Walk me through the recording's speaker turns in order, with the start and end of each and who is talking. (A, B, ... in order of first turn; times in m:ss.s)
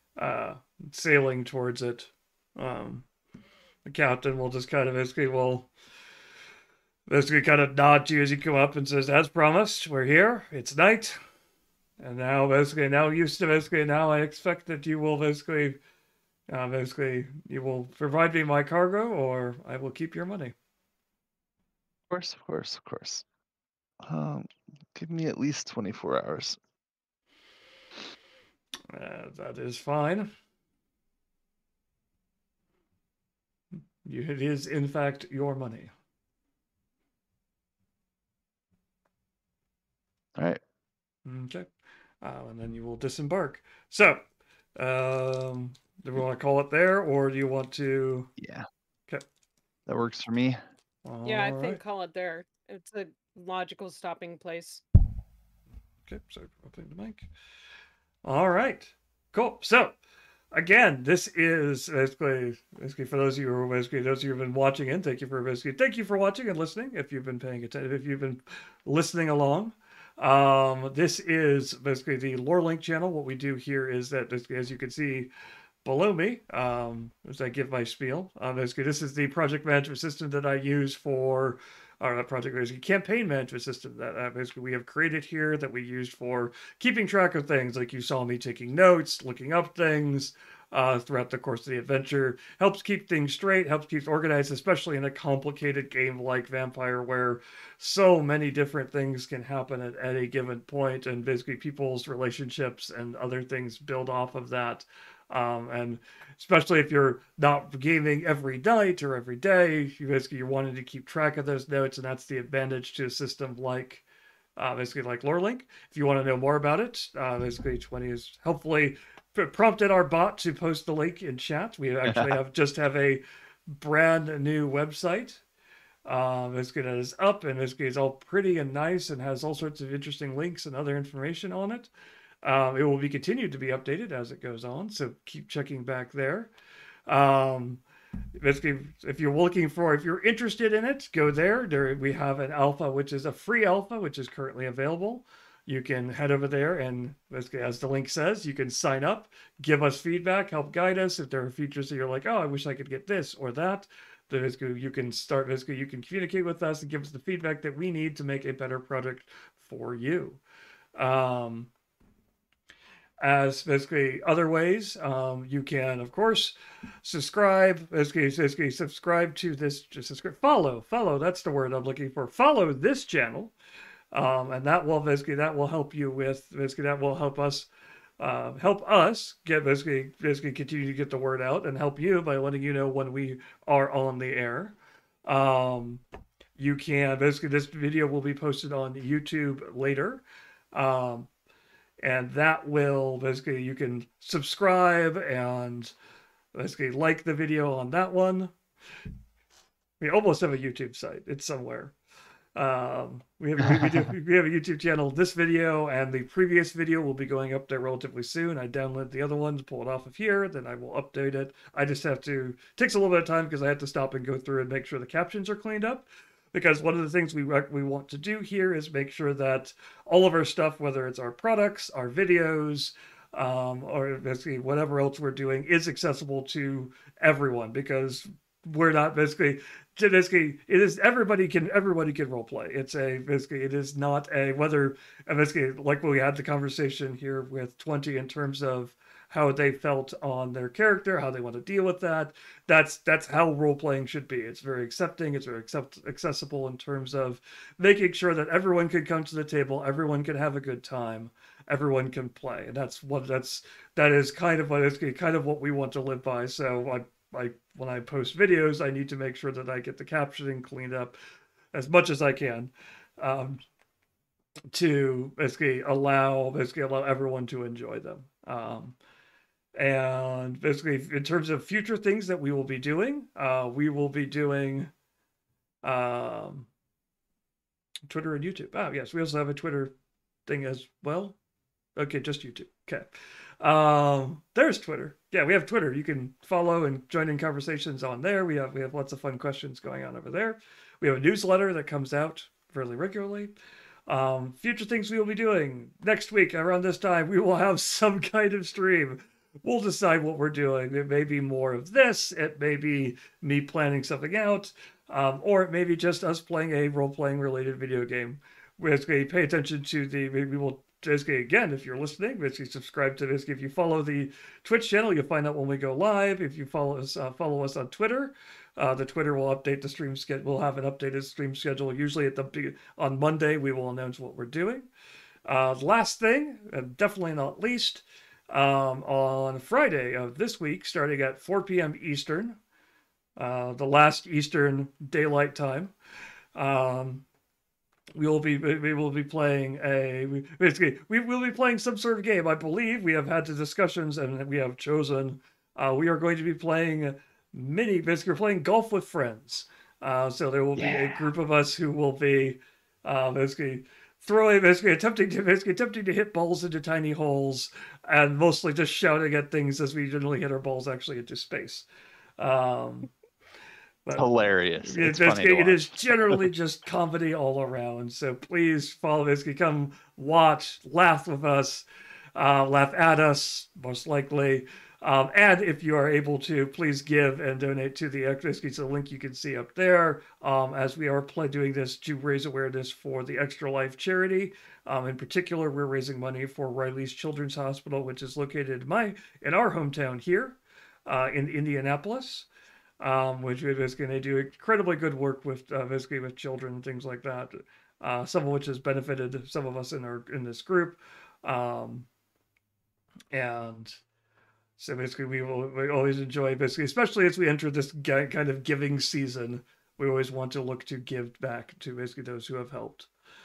0:00.2-0:03.1 A
0:03.8-0:05.7 A
0:07.1-0:11.2 A
0:12.0-0:15.8 A
0:16.5-0:20.5 A
0:22.1-0:23.2 B
0:24.0-0:26.6 B
0:28.9-0:30.3 A
0:34.0-0:35.9 A
0:40.3-0:40.6 B
0:41.2-0:41.7 A
0:42.2-0:44.2 A
0:44.8-0:48.3 A
0:48.4-0:48.7 B
0:49.9-0:50.6 B
0:51.0-0:51.8 A
0:51.2-0:54.8 C
0:56.1-0:57.3 A
0:58.2-1:00.0 A
1:00.5-1:15.3 A
1:15.8-1:54.0 A
1:54.6-2:05.4 A
2:02.0-2:02.3 B
2:06.0-2:11.9 A
2:12.4-2:16.5 A
2:17.1-2:17.8 A
2:18.4-2:40.4 A
2:41.0-2:41.7 A
2:43.2-2:53.5 A
2:54.1-2:57.7 A
2:58.2-3:06.0 A
3:06.6-3:11.3 A
3:12.0-3:15.9 A
3:16.5-3:18.5 A
3:20.0-3:21.9 A
3:22.5-4:21.2 A
4:21.7-4:23.6 A
4:24.7-4:29.0 A
4:29.7-4:34.9 A
4:35.8-4:36.7 A
4:38.1-4:39.9 A
4:40.4-4:41.4 A
4:42.0-4:53.5 A
4:54.1-5:24.9 A
5:25.4-5:32.6 A
5:33.4-5:35.9 A
5:36.5-5:37.2 A
5:38.2-6:01.8 A
5:50.8-5:51.2 B
6:02.4-6:03.1 A
6:04.2-6:06.5 B
6:04.8-6:32.5 A
6:33.0-6:42.1 A
6:43.3-6:44.0 A
6:44.8-6:53.1 A